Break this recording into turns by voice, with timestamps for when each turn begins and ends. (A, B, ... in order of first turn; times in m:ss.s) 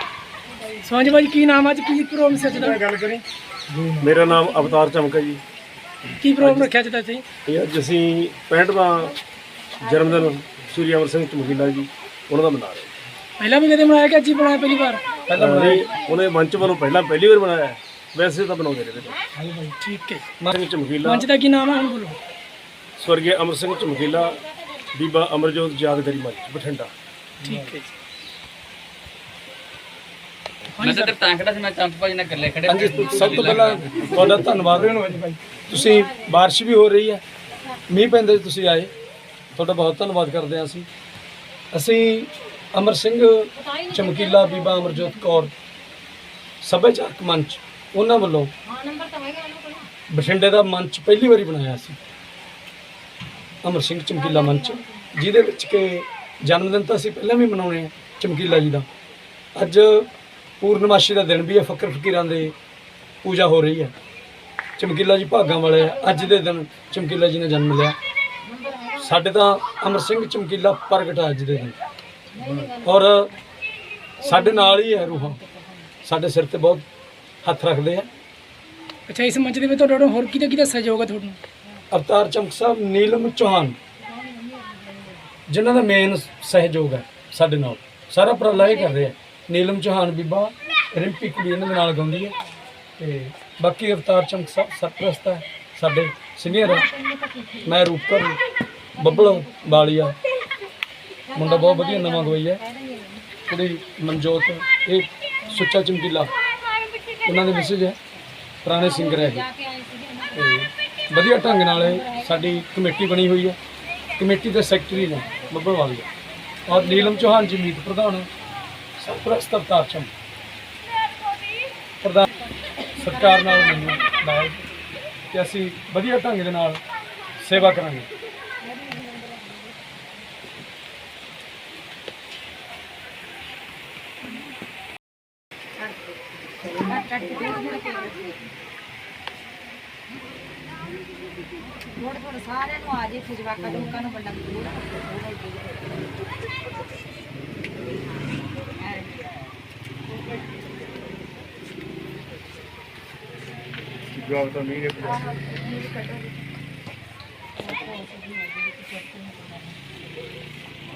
0:00.8-0:02.8 A
0:02.4-0:03.2 B
0:03.7-0:04.1 C
0:04.0-0:05.4 B
0:04.3-0:04.7 D
0:06.2-0:07.2 A
0:06.4-0:06.7 B
0:07.5-0:09.1 B
0:09.8-0:12.9 B
0:09.8-0:10.4 D
0:13.4-0:15.0 A
0:15.3-0:15.9 C
0:15.4-0:19.2 B
0:15.6-0:16.2 D
0:19.4-0:19.7 C
0:19.8-0:20.2 A
0:20.5-0:21.3 B
0:21.0-0:22.2 A
0:23.0-0:24.4 B
0:24.9-0:26.9 B
0:27.4-0:27.9 A
0:30.8-0:31.1 A
0:30.8-0:34.3 E
0:32.7-0:37.2 C
0:33.2-0:33.7 D
0:35.7-0:36.3 D
0:37.9-0:38.9 C
0:39.5-0:40.9 C
0:41.7-0:45.5 C
0:43.6-0:45.5 D
0:46.6-0:48.5 C
0:48.7-0:49.9 D
0:50.1-0:52.0 C
0:53.6-0:58.8 C
0:54.2-0:55.1 D
0:59.6-1:00.1 C
1:00.6-1:02.5 C
1:03.2-1:03.9 C
1:04.8-1:08.0 C
1:05.5-1:06.5 D
1:08.4-1:09.2 D
1:09.0-1:11.8 C
1:12.3-1:13.1 D
1:12.6-1:13.3 C
1:14.2-1:15.9 D
1:14.2-1:15.4 C
1:16.0-1:16.9 C
1:17.4-1:18.1 C
1:19.1-1:21.4 A
1:21.9-1:23.8 C
1:24.0-1:25.3 D
1:25.5-1:32.3 C
1:28.5-1:29.1 D
1:33.0-1:36.9 C
1:36.5-1:37.8 D
1:37.6-1:38.4 C
1:39.0-1:39.9 D
1:39.0-1:40.2 C
1:41.3-1:43.3 D
1:41.3-1:42.6 C
1:43.5-1:46.3 C
1:47.2-1:48.0 C
1:48.6-1:49.4 C
1:48.8-1:50.5 D
1:50.3-1:53.6 C
1:51.6-1:52.6 D
1:54.2-1:56.1 C
1:55.2-1:55.5 D
1:56.7-1:58.3 C
1:56.7-1:57.6 D
1:59.0-2:00.1 C
2:02.0-2:02.3 C
2:02.9-2:04.2 D
2:03.0-2:04.6 C
2:05.3-2:06.8 C
2:07.4-2:08.1 C
2:08.6-2:09.9 D
2:15.8-2:18.4 D
2:21.8-2:25.9 D
2:28.8-2:29.1 D
2:34.2-2:35.2 B
2:35.0-2:36.3 D
2:37.6-2:39.8 D